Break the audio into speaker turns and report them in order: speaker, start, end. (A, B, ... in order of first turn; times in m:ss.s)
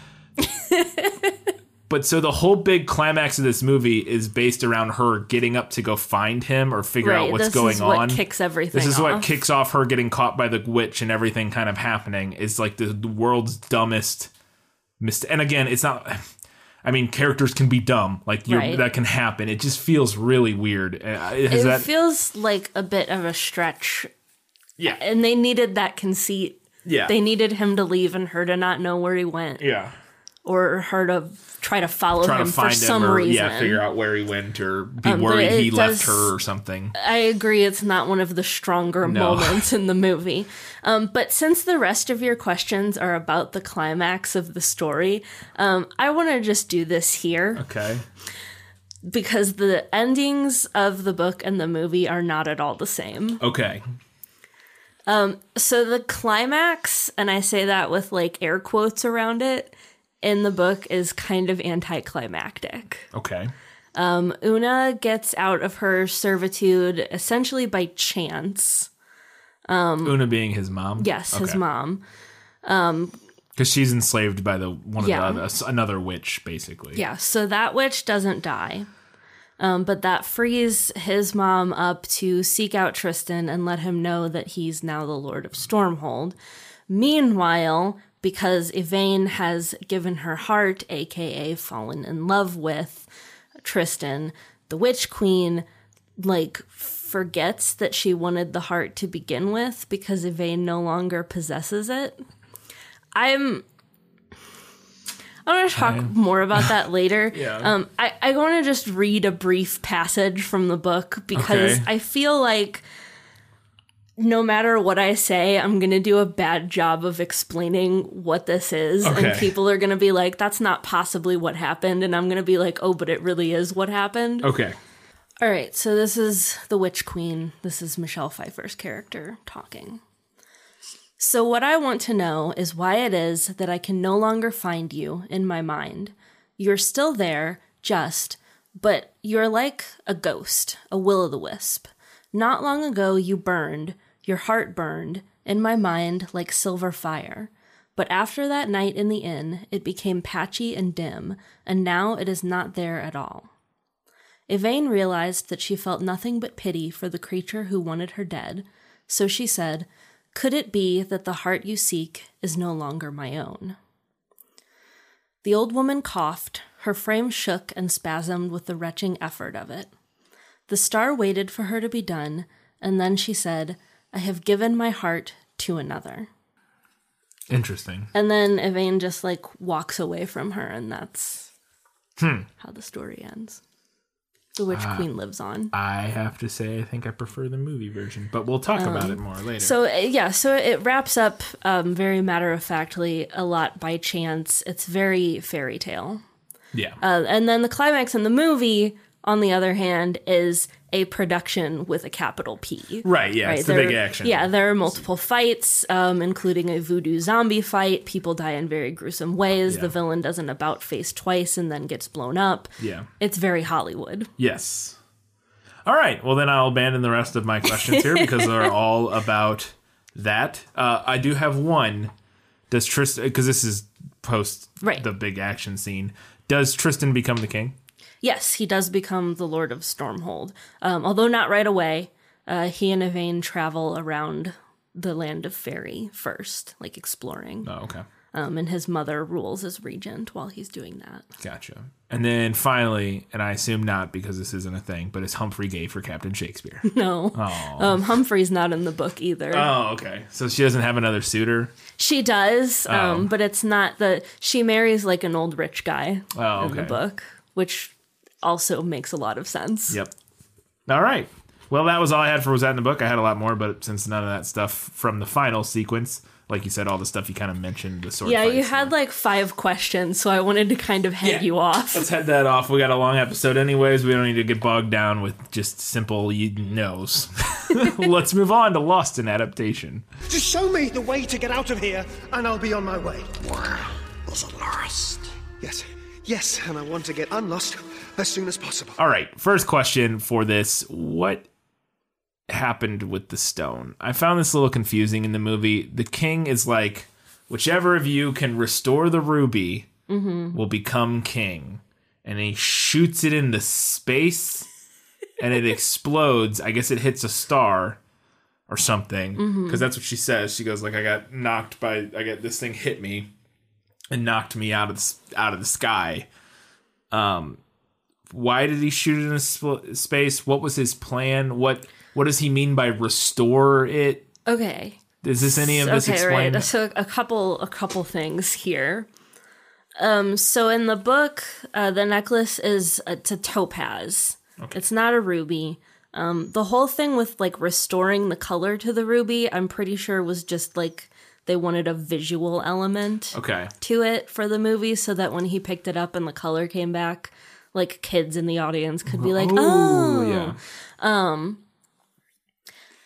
0:00.4-0:01.4 A
0:01.9-0:08.2 B
0:07.0-0:09.3 A
0:08.7-0:14.3 B
0:15.0-0:16.3 B
0:16.8-0:21.9 B
0:18.5-0:18.8 A
0:21.5-0:24.1 A
0:25.0-0:29.7 A
0:26.8-0:27.1 B
0:29.6-0:29.9 B
0:30.4-0:33.8 A
0:32.2-0:36.9 B
0:35.0-0:36.3 A
0:36.9-0:47.6 A
0:39.0-0:39.7 B
0:47.6-0:48.0 B
0:49.0-0:53.4 A
0:53.4-0:53.8 B
0:55.1-1:03.1 A
1:03.1-1:03.5 B
1:04.0-1:08.9 A
1:09.7-1:10.3 A
1:10.0-1:11.6 B
1:11.0-1:12.0 A
1:12.6-1:13.2 A
1:13.6-1:17.0 B
1:15.0-1:15.4 A
1:16.9-1:18.9 A
1:19.6-1:26.4 A
1:26.9-1:33.1 A
1:33.6-1:35.6 A
1:36.2-1:42.2 A
1:43.1-1:43.6 A
1:45.5-1:52.8 A
1:45.8-1:46.7 B
1:47.3-1:47.7 B
1:51.3-1:51.9 B
1:54.2-2:04.5 A
1:59.0-1:59.5 B
2:04.4-2:04.8 B
2:05.4-2:10.0 A
2:11.2-2:33.5 A
2:34.5-2:43.8 A
2:45.4-2:49.9 A
2:50.7-2:56.3 A
2:57.5-2:58.1 B
2:58.1-3:01.5 A
3:02.2-3:02.5 B
3:02.6-3:03.6 A
3:04.6-3:05.7 A
3:04.7-3:05.1 B
3:05.7-3:09.7 B
3:08.8-3:16.2 A
3:16.7-3:17.0 B
3:17.0-3:34.3 A
3:23.0-3:25.0 B
3:29.7-3:29.9 B
3:32.8-3:33.1 B
3:34.4-3:35.0 B
3:35.8-3:42.1 B
3:37.7-3:38.7 A
3:42.7-3:47.8 B
3:44.8-3:45.1 A
3:48.2-3:57.7 A
3:57.6-3:58.0 B
3:58.3-4:01.3 A
4:01.4-4:08.0 B
4:06.8-4:09.7 A
4:09.5-4:11.7 B
4:12.0-4:20.0 A
4:12.9-4:13.3 B
4:16.3-4:17.0 B
4:20.9-4:28.9 B
4:28.2-4:32.1 A
4:31.2-4:40.0 B
4:40.3-4:48.9 C
4:49.0-4:51.5 B
4:52.5-4:59.9 B
5:00.1-5:00.6 A
5:00.5-5:04.7 B
5:05.4-5:08.0 B
5:08.7-5:13.3 B
5:09.4-5:09.8 A
5:14.1-5:16.3 B
5:17.1-5:17.6 B
5:18.3-5:24.3 B
5:24.4-5:29.1 A
5:25.2-5:26.7 B
5:30.0-5:51.6 A
5:43.3-5:43.7 B
5:49.1-5:50.6 B